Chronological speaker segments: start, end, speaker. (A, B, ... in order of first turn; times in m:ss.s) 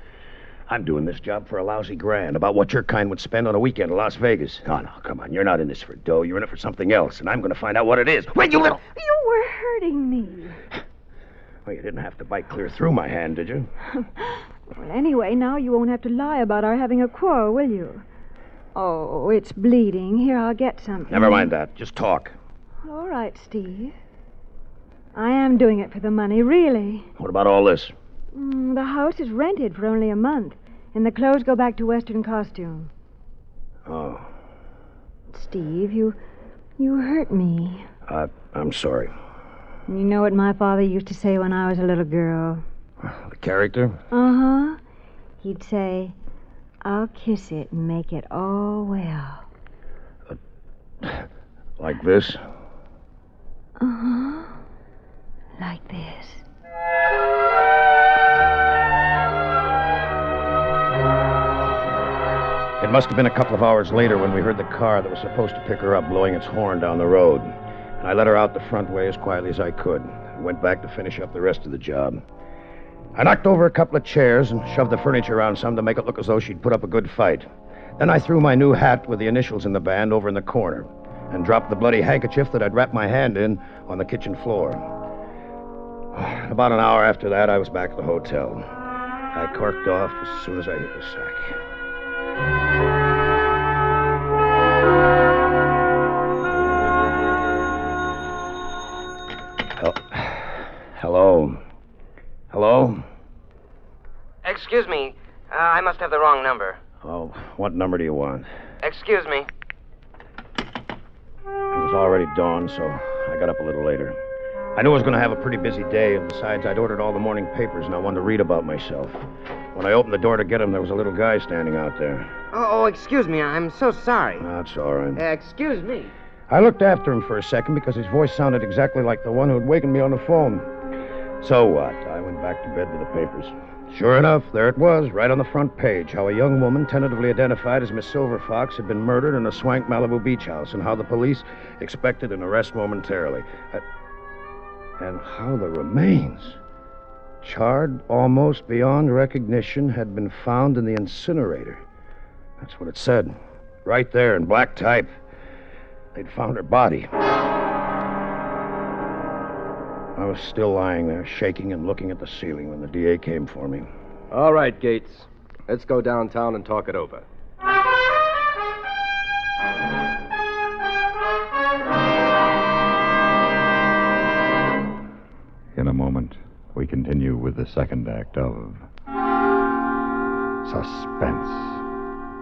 0:00.7-0:08.8 A
0:08.9-0:10.6 B
0:11.7-0:13.7 A
0:14.2-0:18.0 B
0:18.8-0:21.5 B
0:21.1-0:22.4 A
0:22.8-0:24.0 B
0:25.2-0:27.1 B
0:27.2-0:27.9 A
0:28.3-0:32.9 B
0:33.9-0:34.3 A
0:35.3-0:36.2 B
0:36.8-0:37.9 B
0:38.1-0:39.1 A
0:39.9-0:42.6 B
0:43.0-0:44.0 A
0:44.1-0:44.8 B
0:45.4-0:46.1 B
0:46.8-0:49.4 B
0:51.8-0:52.4 A
0:53.8-0:54.6 B
0:55.6-0:56.4 B
1:02.8-1:12.2 A
1:13.2-1:17.5 A
1:18.0-1:24.8 A
1:26.1-1:28.7 A
1:29.3-1:31.6 A
1:39.8-1:41.6 A
1:42.5-1:43.0 A
1:44.4-1:46.8 C
1:47.0-1:48.5 A
1:48.8-1:49.5 C
1:51.7-1:54.2 A
1:54.8-1:59.2 A
1:59.7-2:02.3 A
2:02.5-2:04.4 C
2:04.4-2:05.2 A
2:05.2-2:06.1 C
2:06.5-2:10.7 A
2:11.4-2:23.8 A
2:25.0-2:26.6 A
2:27.4-2:31.8 A
2:32.6-2:35.1 A
2:36.2-2:37.1 A
2:40.2-2:43.9 A
2:44.3-2:47.2 D
2:55.7-2:58.9 E
3:00.6-3:01.8 E